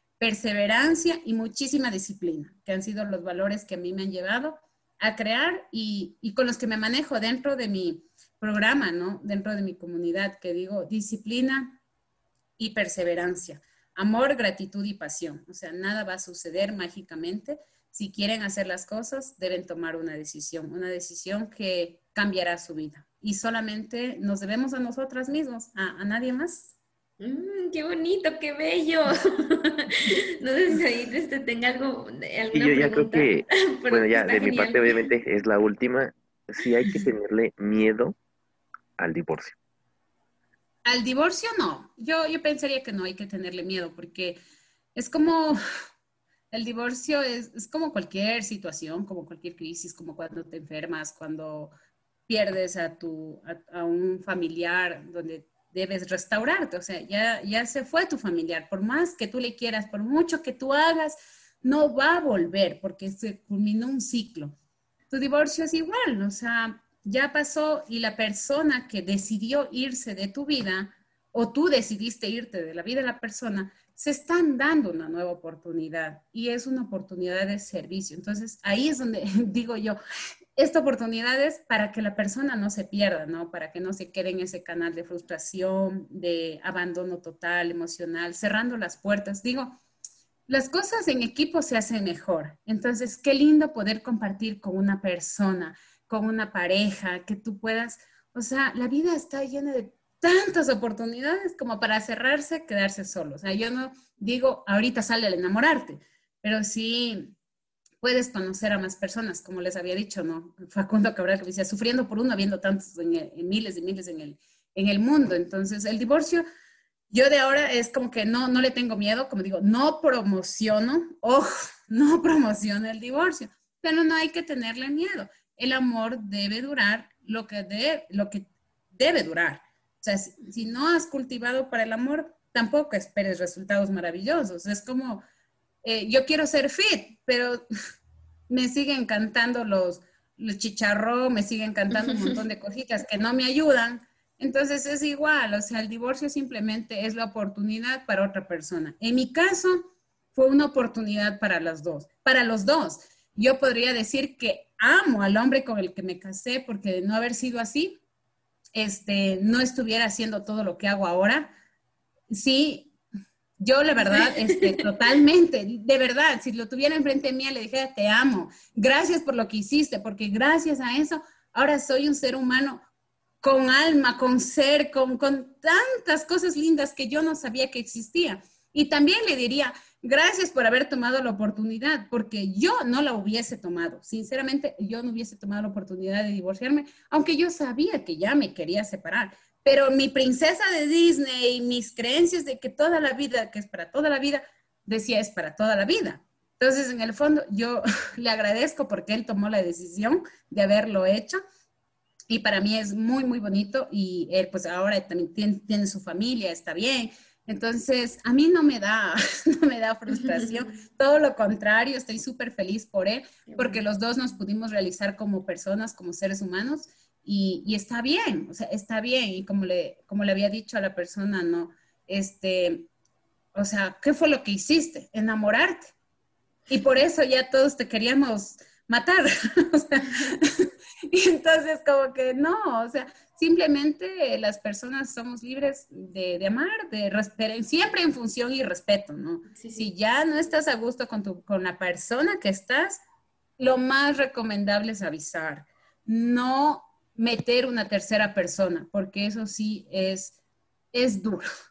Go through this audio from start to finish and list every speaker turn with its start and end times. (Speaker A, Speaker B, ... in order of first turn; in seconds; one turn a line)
Speaker A: 0.2-11.8
Speaker A: 12.6-26.7
Speaker B: 27.2-35.0
Speaker C: 32.5-38.2
Speaker C: 39.0-39.5
Speaker A: 40.8-44.4
Speaker A: 44.9-45.6
Speaker A: 46.5-51.7
Speaker A: 52.3-64.5
Speaker A: 65.1-80.0
Speaker A: 80.5-89.8
Speaker A: 90.5-107.3
Speaker A: 108.0-116.4
Speaker A: 117.1-135.2
Speaker A: 135.8-137.6
Speaker A: 138.5-158.0
Speaker B: 142.1-142.3
Speaker A: 158.7-161.5
Speaker A: 162.3-162.9
Speaker A: 163.6-172.8
Speaker B: 164.1-164.8
Speaker A: 173.4-201.4
Speaker A: 202.3-222.9
Speaker B: 210.2-210.6
Speaker B: 213.5-213.8
Speaker A: 223.5-225.9
Speaker A: 226.7-243.0
Speaker B: 239.5-239.9
Speaker A: 243.6-250.3
Speaker A: 250.9-251.4